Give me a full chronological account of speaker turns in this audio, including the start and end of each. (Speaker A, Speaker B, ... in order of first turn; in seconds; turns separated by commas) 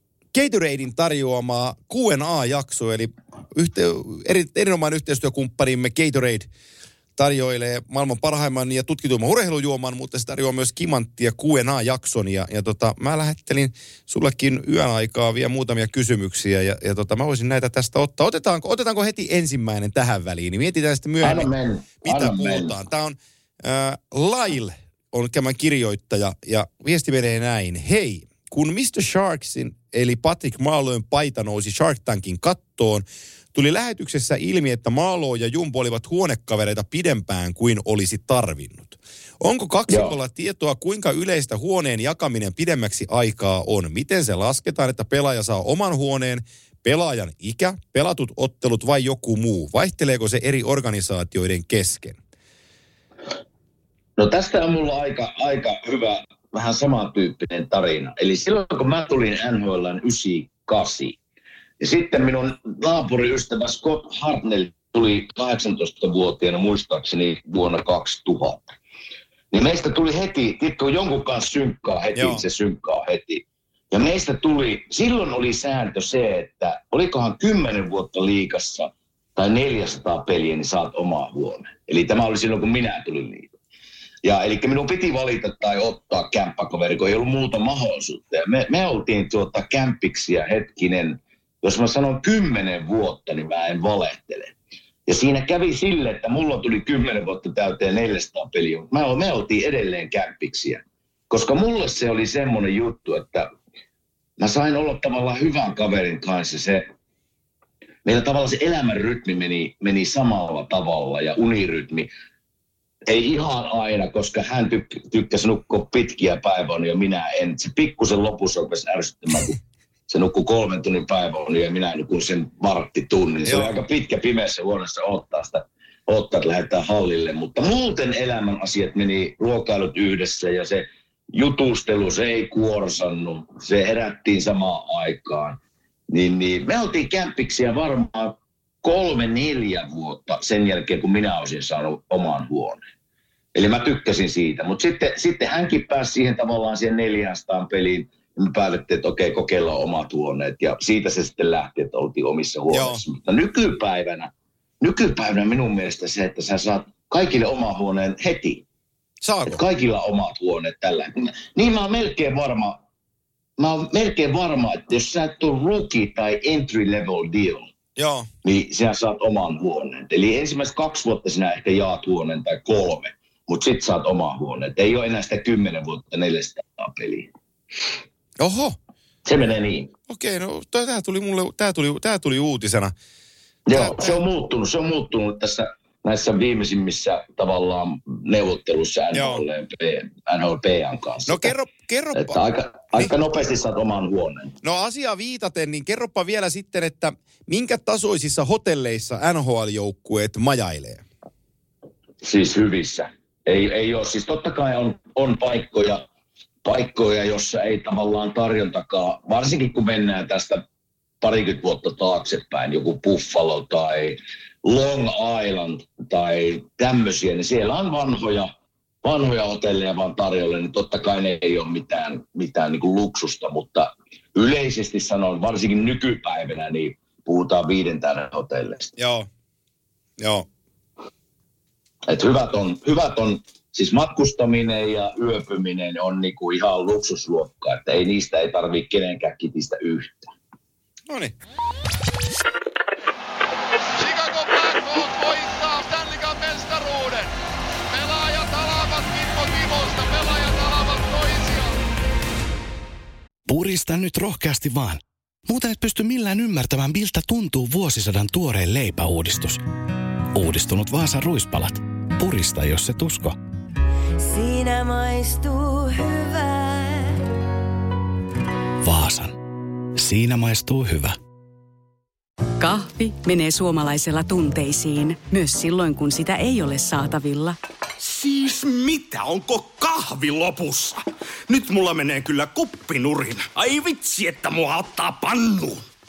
Speaker A: 0.3-6.5, Speaker A: 7.2-21.5, Speaker B: 21.2-22.7, Speaker A: 22.0-52.2, Speaker B: 39.9-40.1, Speaker B: 54.2-61.2, Speaker B: 61.8-68.7, Speaker B: 69.5-83.5, Speaker A: 72.2-72.4, Speaker B: 84.2-94.5, Speaker B: 95.1-103.5, Speaker B: 104.4-106.9, Speaker B: 108.0-112.1, Speaker B: 113.1-119.6, Speaker B: 120.1-142.8, Speaker A: 123.5-123.8, Speaker B: 143.6-154.3, Speaker A: 152.7-153.0, Speaker B: 154.8-158.6, Speaker A: 159.2-159.6, Speaker B: 159.5-162.8, Speaker B: 163.6-167.7, Speaker A: 168.0-168.3, Speaker B: 168.4-177.3, Speaker A: 178.4-178.8, Speaker B: 179.3-179.9, Speaker A: 180.1-182.9, Speaker B: 183.7-191.5, Speaker A: 183.7-184.2, Speaker A: 189.1-189.4, Speaker A: 191.3-192.4, Speaker B: 192.2-194.6, Speaker A: 194.6-201.0, Speaker B: 202.2-206.0, Speaker B: 206.7-210.6, Speaker B: 211.2-218.5, Speaker B: 219.0-228.9, Speaker A: 229.0-229.3, Speaker A: 230.2-230.5, Speaker B: 232.1-240.3, Speaker A: 241.1-241.3, Speaker C: 244.0-247.3, Speaker C: 247.9-251.8, Speaker D: 253.5-259.6, Speaker D: 260.3-263.4, Speaker E: 264.2-267.2, Speaker D: 268.8-269.4, Speaker D: 270.0-271.2, Speaker F: 272.6-277.6, Speaker G: 278.0-285.8